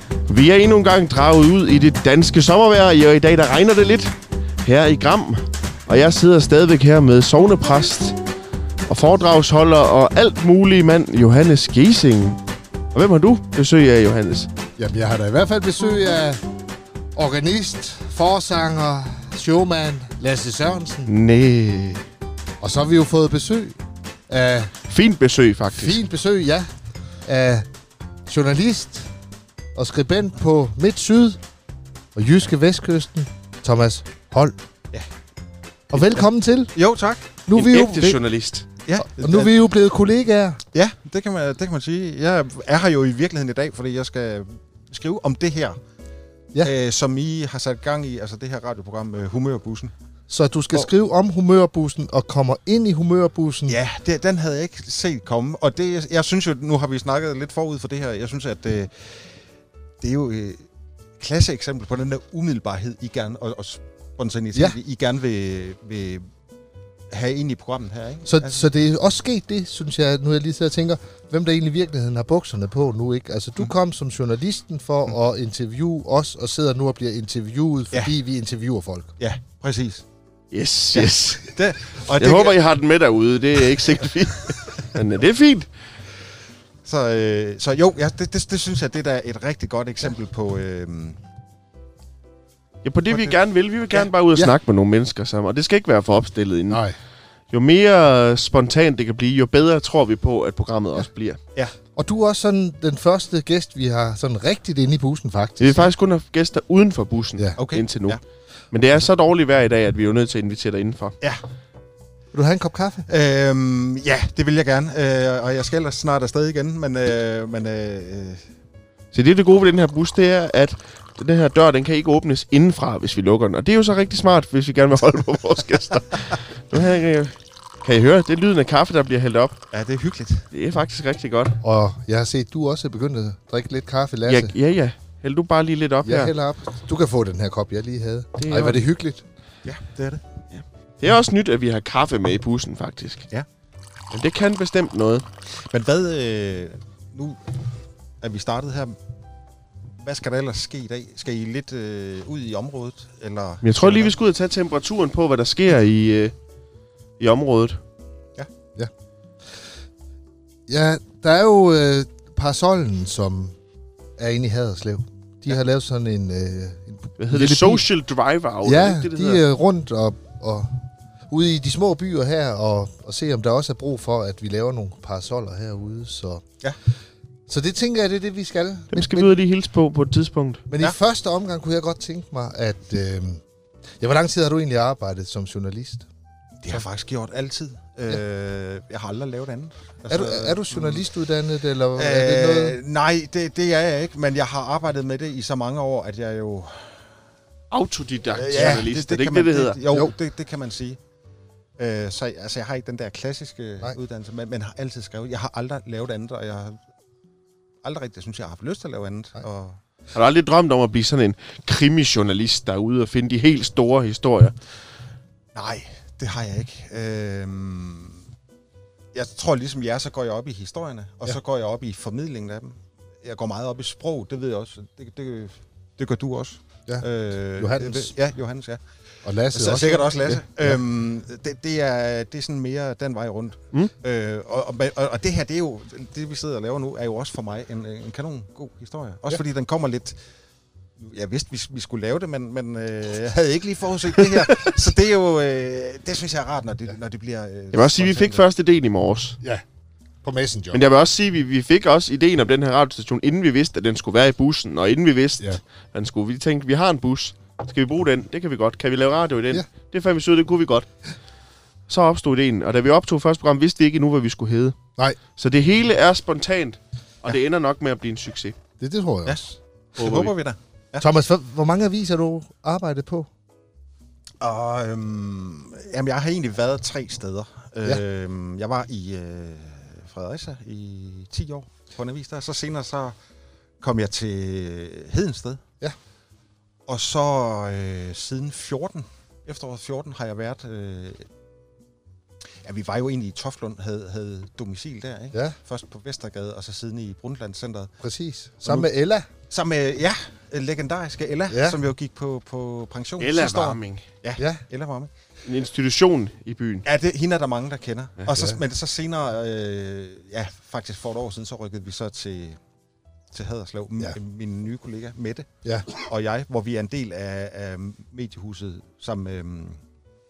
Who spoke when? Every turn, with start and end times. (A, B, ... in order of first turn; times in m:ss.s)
0:00.2-0:08.2 A
0:08.9-0:12.4 A
0:12.9-0:14.5 A
0:14.8-0:16.4 B
0:17.2-0:21.1 B
0:21.1-0:22.0 A
0:22.6-0:23.8 B
0:24.3-0:24.7 B
0:24.9-0:26.0 A
0:25.7-0:26.7 B
0:27.2-0:27.7 B
0:28.2-0:29.1 B
0:29.7-0:31.4 B
0:32.1-0:34.6 B
0:35.9-0:36.7 B
0:36.7-0:37.3 C
0:37.5-0:38.2 B
0:37.5-0:38.6 A
0:38.8-0:39.5 C
0:39.0-0:40.6 B
0:40.7-0:45.8 C
0:46.6-0:49.9 C
0:50.3-0:53.8 B
0:53.7-0:59.2 C
1:00.0-1:00.6 C
1:01.2-1:06.3 C
1:07.1-1:08.7 C
1:08.2-1:19.1 B
1:19.2-1:20.0 C
1:20.5-1:21.6 A
1:20.9-1:22.6 C
1:22.1-1:25.7 A
1:26.8-1:31.2 C
1:32.8-1:36.8 A
1:33.1-1:33.4 C
1:36.7-1:37.0 B
1:37.5-1:41.4 A
1:42.0-1:45.9 B
1:45.6-1:48.2 A
1:47.6-1:48.2 C
1:48.7-1:51.2 A
1:52.3-1:53.1 B
1:53.1-1:58.4 C
1:59.1-2:09.6 A
2:09.7-2:10.5 C
2:10.5-2:11.6 A
2:11.6-2:14.5 B
2:14.2-2:16.3 A
2:16.0-2:19.2 B
2:18.4-2:18.8 A
2:19.6-2:20.2 C
2:20.5-2:23.3 A
2:24.1-2:25.2 A
2:25.7-2:27.4 C
2:28.2-2:29.0 C
2:30.0-2:34.2 C
2:33.6-2:36.3 A
2:37.2-2:37.8 A
2:40.7-2:43.6 B
2:44.2-2:47.8 B
2:47.2-2:49.4 A
2:48.6-2:50.7 B
2:51.3-2:56.4 B
2:57.5-2:59.4 B
2:58.9-3:00.6 A
3:00.7-3:03.4 B
3:04.0-3:06.1 B
3:06.6-3:11.0 C
3:10.1-3:12.8 B
3:11.9-3:17.0 C
3:17.7-3:19.8 A
3:18.3-3:21.0 C
3:21.8-3:26.8 C
3:27.8-3:29.8 C
3:30.1-3:34.5 A
3:35.5-3:38.2 C
3:39.1-3:48.8 C
3:47.6-3:48.1 B
3:49.2-3:50.8 B
3:49.5-4:00.2 C
4:01.0-4:08.4 C
4:07.7-4:09.4 A
4:10.2-4:10.8 B
4:10.7-4:20.9 A
4:21.9-4:24.8 A
4:25.4-4:28.6 A
4:28.8-4:29.6 B
4:30.0-4:31.1 C
4:30.0-4:30.3 A
4:31.0-4:33.3 B
4:34.4-4:43.2 C
4:43.8-4:45.6 C
4:46.9-4:51.2 C
4:52.6-4:57.9 C
4:58.0-4:59.3 B
4:59.5-5:05.1 C
5:01.5-5:01.8 B
5:03.2-5:04.0 A
5:05.4-5:06.8 A
5:06.8-5:12.6 C
5:08.3-5:08.6 B
5:13.3-5:19.8 C
5:15.6-5:15.9 B